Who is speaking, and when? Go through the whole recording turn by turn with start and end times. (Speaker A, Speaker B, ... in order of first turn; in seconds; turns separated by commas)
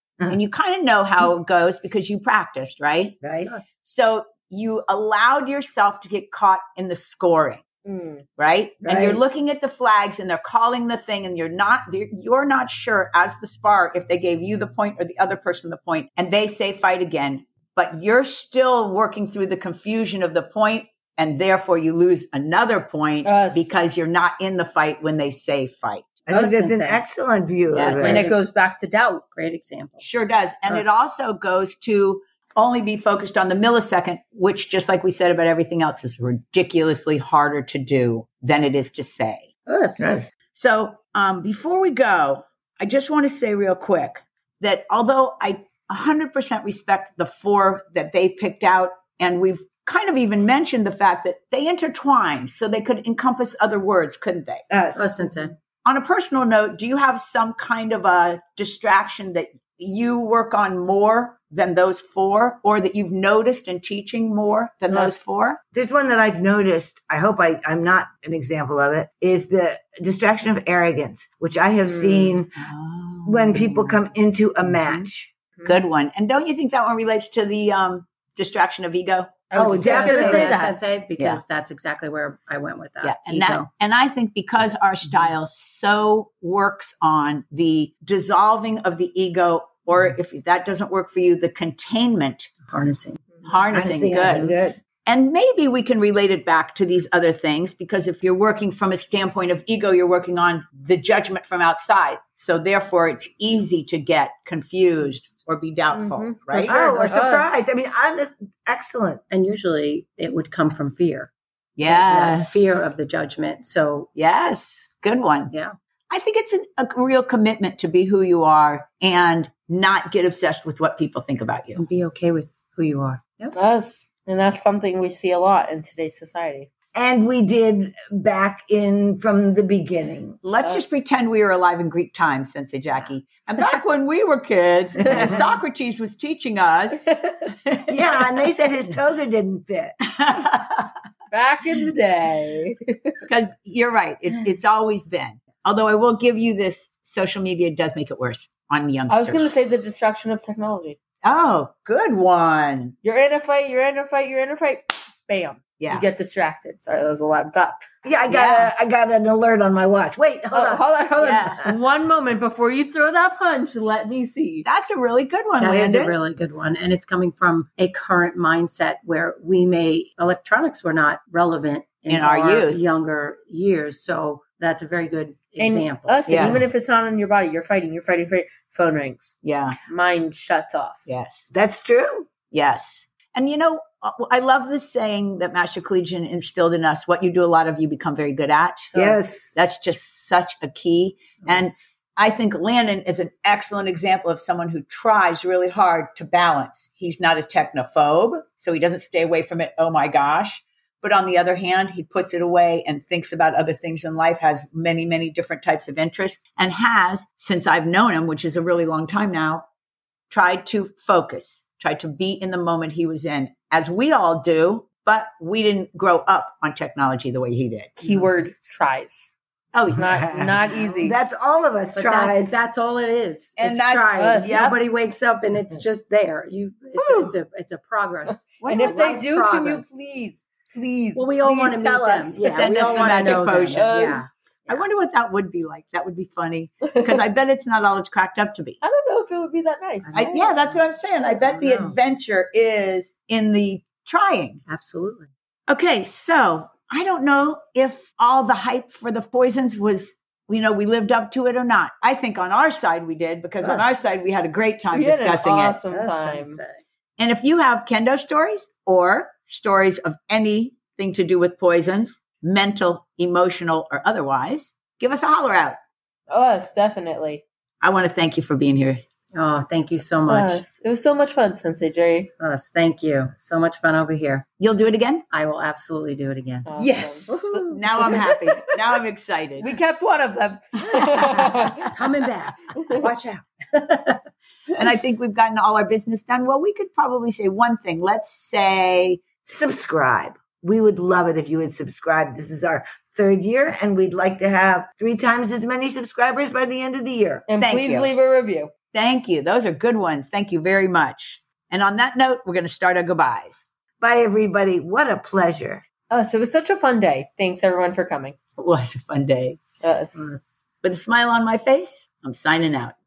Speaker A: 0.3-3.2, Speaker B: 3.2-3.5, Speaker A: 3.8-7.6, Speaker C: 7.8-8.2, Speaker A: 8.4-26.1, Speaker B: 8.8-9.2, Speaker C: 23.2-23.7, Speaker B: 26.3-28.2, Speaker D: 26.3-27.0, Speaker A: 27.7-28.3, Speaker D: 27.7-28.4, Speaker C: 27.9-29.2, Speaker D: 29.3-30.0, Speaker A: 30.0-39.5, Speaker D: 30.7-31.0, Speaker D: 39.7-40.2, Speaker B: 40.0-40.2, Speaker A: 40.5-54.6, Speaker B: 54.7-55.5, Speaker D: 54.9-55.5, Speaker A: 55.8-65.6, Speaker C: 64.9-65.2, Speaker B: 65.7-72.6, Speaker C: 71.8-72.4, Speaker A: 72.5-74.0, Speaker B: 73.2-75.3, Speaker A: 75.6-79.4, Speaker C: 79.5-80.7, Speaker B: 79.5-80.6, Speaker D: 79.8-83.7, Speaker A: 83.0-92.5, Speaker D: 92.7-94.5, Speaker A: 93.4-94.5, Speaker B: 93.7-94.8, Speaker A: 95.0-106.8, Speaker C: 105.9-107.5, Speaker D: 106.5-107.1, Speaker B: 106.7-109.2, Speaker D: 109.3-111.3, Speaker A: 111.8-112.8, Speaker D: 111.8-114.1, Speaker A: 114.2-115.5, Speaker A: 116.1-121.8, Speaker D: 121.8-123.5, Speaker C: 123.5-126.7, Speaker B: 126.9-130.4, Speaker A: 130.4-137.1, Speaker C: 130.6-130.9, Speaker C: 135.1-135.4, Speaker C: 137.0-137.7, Speaker B: 137.9-140.0, Speaker A: 140.1-140.9, Speaker C: 141.3-143.1, Speaker A: 143.2-149.5, Speaker C: 149.1-151.0, Speaker A: 151.2-152.9, Speaker C: 153.0-157.9, Speaker A: 155.8-156.1, Speaker B: 158.0-160.8, Speaker A: 158.3-158.7, Speaker C: 160.5-164.7, Speaker A: 161.2-161.7, Speaker A: 164.6-166.1, Speaker D: 165.6-176.7, Speaker A: 172.1-172.9, Speaker C: 175.6-179.3, Speaker A: 176.3-176.7, Speaker A: 179.4-179.8, Speaker C: 179.8-181.1, Speaker A: 181.1-181.4, Speaker B: 181.5-182.3, Speaker A: 182.5-188.9, Speaker C: 188.9-189.2, Speaker B: 188.9-189.5, Speaker A: 189.5-209.7, Speaker D: 191.4-191.8, Speaker A: 210.3-218.0, Speaker C: 218.0-219.3, Speaker A: 219.7-220.3, Speaker C: 219.9-221.2, Speaker B: 220.0-222.6, Speaker D: 221.9-229.8, Speaker A: 223.6-224.8, Speaker C: 224.1-224.6, Speaker C: 226.9-227.3, Speaker C: 228.6-234.3, Speaker A: 228.6-229.0, Speaker D: 231.1-234.8, Speaker A: 232.3-238.8, Speaker C: 236.9-237.2, Speaker C: 238.8-240.4, Speaker D: 240.0-242.0, Speaker A: 240.1-244.6, Speaker D: 244.7-245.3, Speaker A: 245.7-255.8, Speaker D: 253.6-253.9, Speaker C: 254.9-256.6, Speaker D: 255.9-256.8, Speaker A: 257.2-265.8, Speaker C: 266.3-267.4, Speaker A: 267.8-269.0, Speaker D: 269.3-270.6, Speaker C: 270.3-272.3, Speaker D: 272.4-274.5, Speaker A: 274.6-275.2, Speaker D: 275.3-278.2, Speaker C: 276.6-278.6, Speaker A: 276.8-279.7, Speaker C: 279.6-281.9, Speaker A: 281.2-281.6, Speaker D: 281.2-284.2, Speaker C: 282.8-283.0, Speaker A: 284.7-289.2, Speaker B: 289.4-297.4, Speaker C: 297.5-298.7, Speaker A: 297.6-298.1, Speaker A: 298.9-303.6, Speaker B: 304.0-305.8, Speaker C: 306.1-308.4, Speaker A: 308.6-309.6, Speaker C: 309.8-310.3, Speaker D: 310.1-310.5, Speaker A: 310.8-312.9